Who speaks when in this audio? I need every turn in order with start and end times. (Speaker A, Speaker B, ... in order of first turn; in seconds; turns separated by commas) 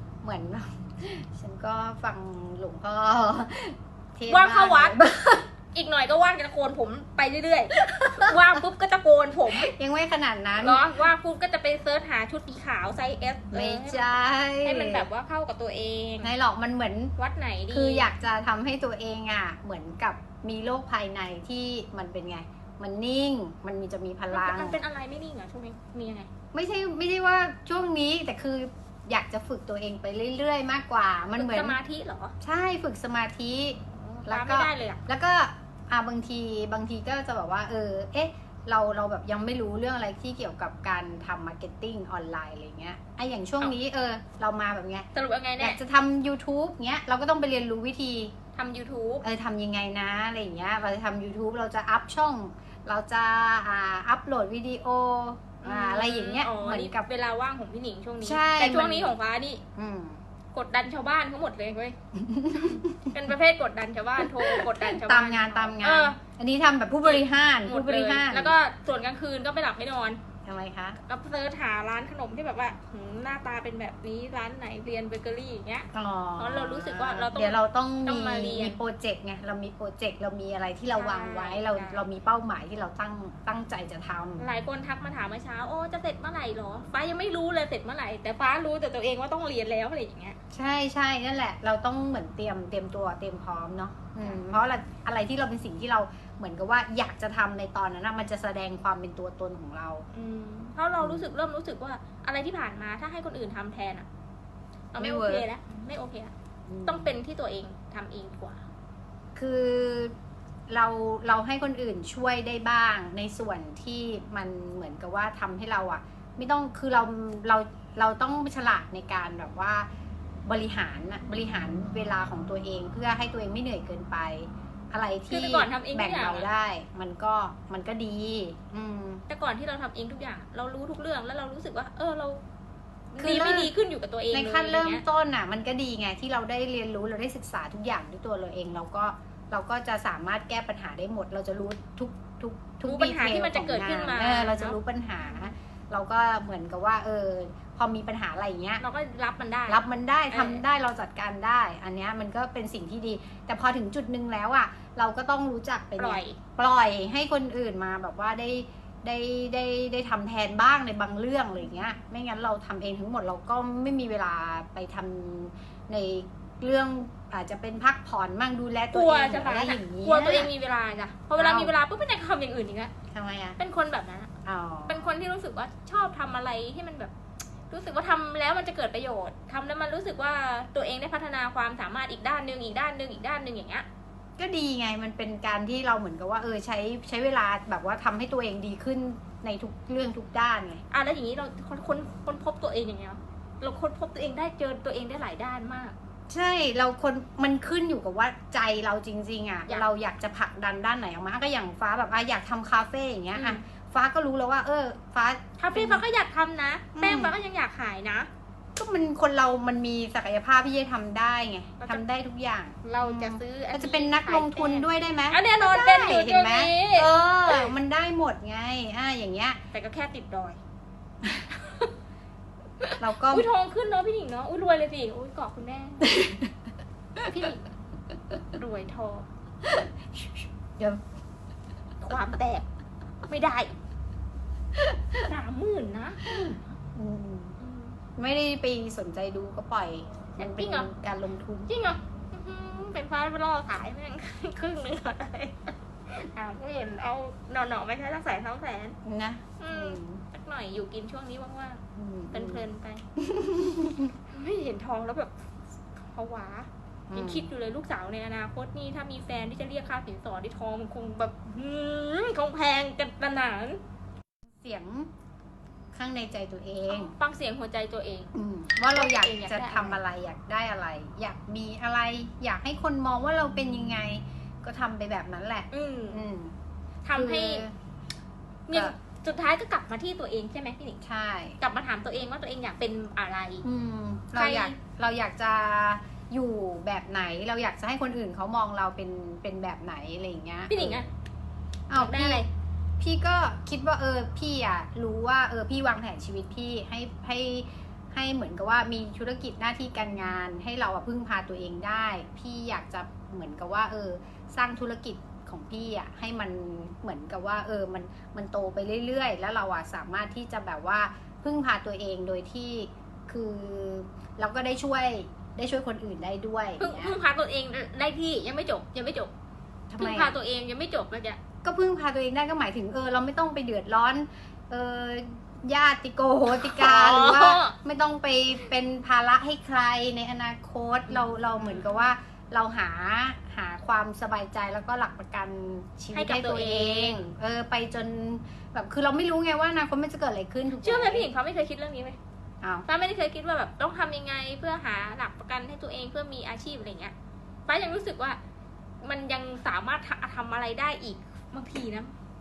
Speaker A: 0.2-5.5, Speaker B: 4.3-5.0, Speaker B: 5.7-9.7, Speaker A: 7.8-8.4, Speaker A: 9.6-10.8, Speaker B: 10.6-14.1, Speaker A: 13.5-15.1, Speaker B: 14.6-16.3, Speaker A: 16.2-17.1, Speaker B: 17.2-18.1, Speaker A: 17.7-24.8, Speaker B: 24.3-26.3, Speaker A: 26.5-31.8, Speaker B: 31.4-32.3, Speaker A: 32.4-45.1, Speaker B: 34.0-35.0, Speaker B: 45.1-45.8, Speaker A: 45.6-48.3, Speaker B: 48.5-49.2, Speaker A: 49.2-57.1, Speaker B: 55.6-59.6, Speaker A: 58.2-59.1, Speaker A: 59.8-60.2, Speaker B: 60.5-62.0, Speaker A: 62.1-63.2, Speaker B: 62.7-66.2, Speaker A: 64.2-68.5, Speaker B: 67.0-70.2, Speaker A: 70.5-71.0, Speaker B: 71.0-78.8, Speaker A: 75.9-84.5, Speaker B: 80.9-82.1, Speaker B: 84.4-90.4, Speaker A: 90.5-100.0, Speaker B: 100.1-104.1, Speaker A: 101.0-101.3, Speaker B: 104.9-106.3, Speaker A: 105.0-105.5, Speaker A: 106.7-107.1, Speaker B: 106.8-108.6, Speaker A: 109.3-110.1, Speaker A: 110.7-119.9, Speaker A: 120.5-129.2, Speaker B: 125.3-126.5, Speaker B: 129.3-132.4, Speaker B: 133.1-135.0, Speaker A: 133.2-133.7, Speaker A: 134.3-148.8, Speaker B: 142.8-145.5, Speaker B: 148.8-150.6, Speaker A: 149.7-170.5, Speaker B: 156.0-156.4, Speaker B: 168.9-172.9, Speaker A: 171.3-171.7, Speaker A: 173.1-173.6, Speaker B: 173.6-174.3, Speaker A: 174.4-175.1, Speaker B: 174.9-177.1, Speaker B: 177.7-183.9, Speaker A: 184.4-190.8, Speaker B: 190.9-196.0, Speaker A: 196.3-206.0, Speaker B: 203.3-203.6, Speaker B: 205.6-208.3, Speaker A: 207.0-207.3, Speaker A: 208.8-219.6, Speaker B: 211.8-212.0, Speaker B: 212.8-217.7, Speaker B: 219.7-220.6, Speaker B: 221.5-221.9, Speaker B: 222.8-226.3, Speaker A: 223.0-223.5, Speaker A: 226.0-226.5, Speaker A: 227.2-227.5, Speaker B: 227.2-227.6, Speaker B: 228.5-229.3, Speaker A: 229.7-229.9, Speaker A: 230.8-231.0, Speaker B: 232.0-232.7, Speaker B: 233.3-233.7, Speaker A: 234.9-235.2, Speaker B: 235.2-236.6, Speaker A: 236.3-237.6, Speaker B: 237.6-237.9, Speaker A: 238.2-241.7, Speaker B: 240.4-240.9, Speaker B: 241.7-249.0, Speaker A: 249.1-250.2, Speaker B: 249.6-253.0, Speaker A: 251.9-252.6, Speaker A: 253.2-254.1, Speaker B: 254.3-255.3, Speaker B: 256.0-263.8, Speaker A: 257.1-257.5, Speaker A: 264.6-265.1, Speaker A: 265.9-267.1, Speaker B: 266.9-268.3, Speaker A: 268.3-276.6, Speaker B: 268.9-270.0, Speaker B: 275.7-276.2, Speaker B: 277.1-277.6, Speaker A: 277.1-277.7, Speaker B: 278.7-281.0, Speaker A: 281.0-281.6, Speaker B: 281.6-283.6, Speaker A: 283.6-291.0, Speaker B: 284.4-284.8, Speaker B: 290.7-291.1, Speaker A: 291.9-292.4, Speaker B: 291.9-292.5, Speaker A: 293.0-317.2, Speaker B: 316.8-319.3, Speaker A: 319.9-320.3, Speaker B: 320.0-321.4, Speaker A: 321.6-341.3, Speaker B: 326.5-327.8, Speaker B: 331.1-332.1, Speaker B: 336.1-337.2, Speaker B: 340.8-342.2, Speaker A: 342.6-342.9, Speaker B: 342.9-347.1, Speaker B: 347.7-348.4, Speaker B: 349.0-352.1